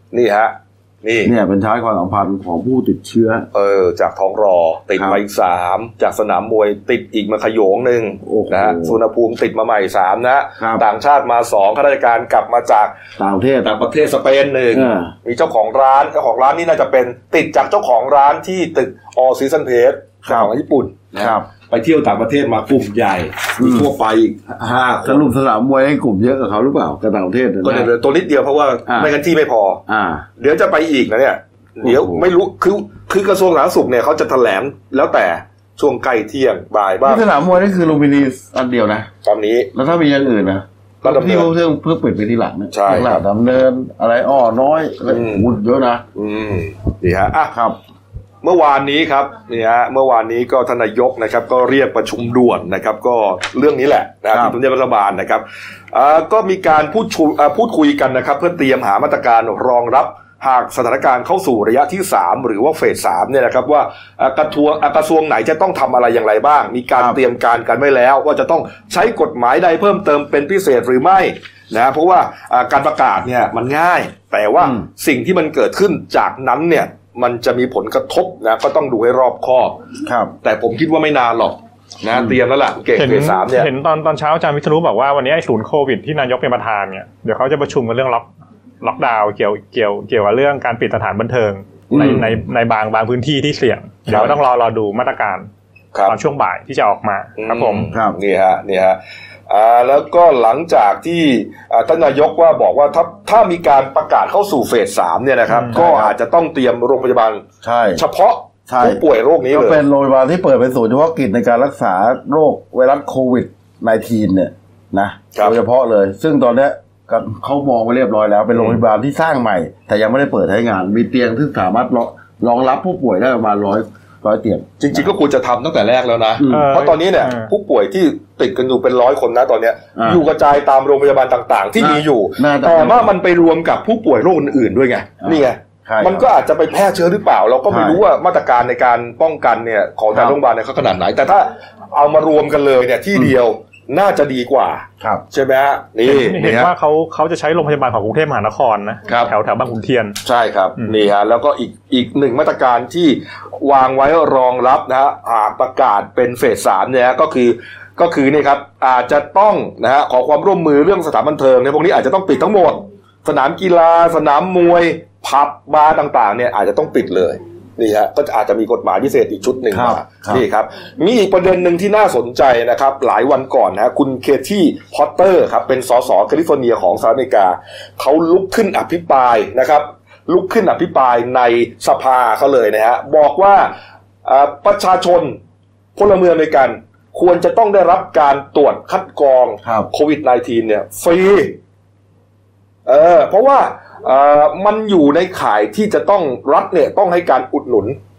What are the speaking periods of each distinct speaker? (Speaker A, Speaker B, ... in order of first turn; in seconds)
Speaker A: 0.1-1.3, 3.5-12.9, 13.6-25.3, 27.6-29.8, 30.4-37.2, 39.2-39.7, 41.0-41.5, 42.7-43.2, 45.1-45.5, 46.1-47.5, 48.4-79.8, 80.4-83.7, 91.9-92.2, 94.1-94.4, 97.4-107.4, 108.0-109.8, 118.5-118.8, 124.8-146.7, 150.2-185.4, 185.9-191.6, 192.8-198.0
Speaker B: 1.2-3.5, 8.2-9.0, 13.2-13.7, 14.7-15.1, 20.2-20.5, 21.2-21.4, 23.6-23.9, 25.0-27.9, 28.9-29.1, 29.9-30.2, 31.8-32.3, 37.0-39.1, 39.7-46.0, 47.5-47.8, 74.6-74.8, 80.0-80.3, 91.9-92.2, 97.9-98.2, 105.7-106.1, 107.6-108.0, 108.7-125.1, 126.4-126.7, 129.9-130.2, 131.8-133.1, 135.2-136.2, 137.7-138.0, 169.7-170.4
Speaker C: 83.0-88.3, 88.8-95.5, 96.1-97.9, 126.5-127.5, 146.1-150.2